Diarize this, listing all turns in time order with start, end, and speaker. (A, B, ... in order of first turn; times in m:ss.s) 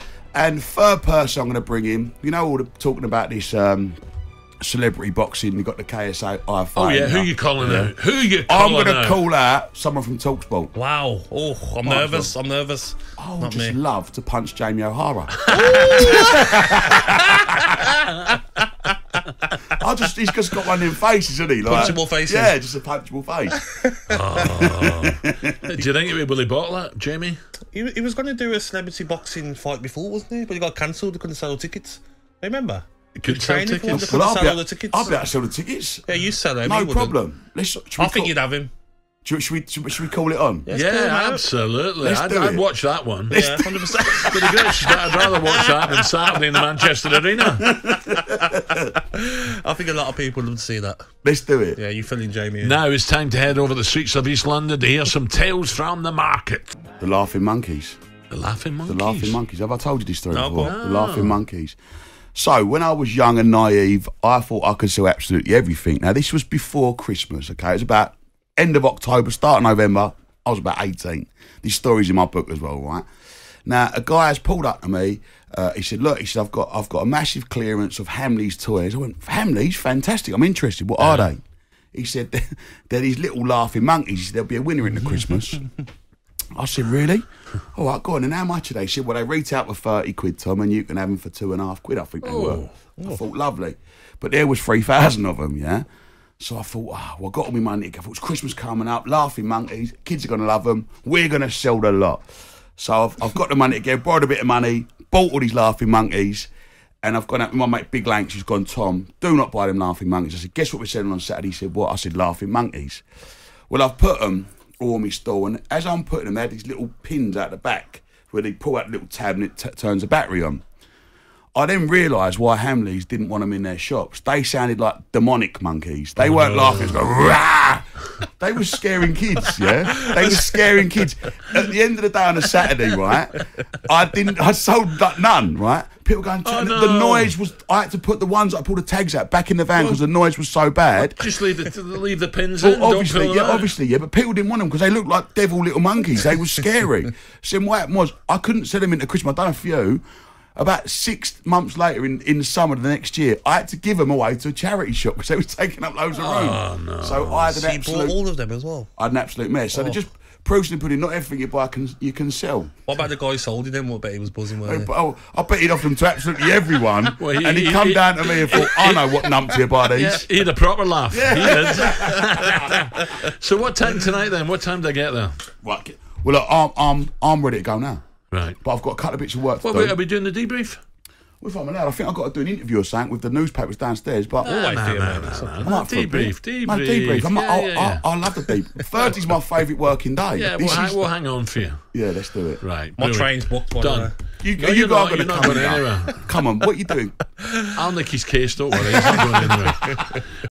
0:00.3-0:04.0 A
0:04.6-0:07.9 A
0:06.8-0:09.2 B
0:08.5-0:10.7 A
0:10.7-0:13.8 C
0:11.8-0:12.4 A
0:13.2-0:17.7 A
0:15.5-0:17.2 C
0:15.6-0:16.1 B
0:19.7-0:23.6 A
0:21.6-0:22.5 C
0:23.7-0:24.4 C
0:24.1-0:27.4 B
0:24.4-0:25.6 A
0:27.7-0:35.2 C
0:33.2-0:34.2 B
0:33.9-0:36.0 A
0:36.1-0:37.2 C
0:36.6-0:38.4 A
0:38.0-0:38.7 C
0:39.2-0:40.7 A
0:40.7-0:41.5 C
0:40.7-0:43.4 B
0:42.0-0:42.7 A
0:43.3-0:44.6 A
0:43.3-0:46.6 C
0:44.2-0:47.8 B
0:47.6-0:48.8 A
0:48.0-0:48.4 C
0:49.1-0:51.1 C
0:51.2-0:51.8 A
0:51.8-0:52.8 C
0:52.6-0:56.8 B
0:57.0-0:58.0 A
0:58.3-0:59.4 B
0:58.9-1:01.8 A
1:00.3-1:00.8 C
1:00.6-1:01.4 B
1:02.4-1:13.0 A
1:13.6-1:21.4 A
1:21.0-1:21.3 B
1:21.9-1:25.7 A
1:26.5-1:35.9 A
1:32.2-1:32.8 B
1:36.4-1:42.2 A
1:42.8-1:46.5 A
1:47.0-1:53.0 A
1:53.7-2:00.6 A
2:01.5-2:21.3 A
2:06.2-2:07.0 B
2:10.2-2:11.0 C
2:16.4-2:17.4 B
2:19.8-2:20.0 B
2:21.0-2:23.8 B
2:22.6-2:30.0 A
2:30.6-2:38.2 A
2:36.1-2:37.6 B
2:37.6-2:38.9 C
2:39.0-2:42.7 A
2:39.7-2:40.0 C
2:42.9-2:44.9 C
2:44.6-2:50.3 A
2:47.2-2:49.2 B
2:49.8-2:55.4 B
2:51.1-2:52.6 A
2:55.6-2:58.0 A
2:58.3-2:58.6 B
2:58.6-3:00.0 A
2:59.6-3:00.8 B
3:01.4-3:04.5 A
3:04.4-3:09.2 B
3:04.4-3:05.8 C
3:05.6-3:11.0 A
3:10.4-3:11.9 B
3:11.9-3:12.6 A
3:12.6-3:16.3 B
3:13.0-3:14.2 C
3:14.4-3:17.2 A
3:17.7-3:20.2 B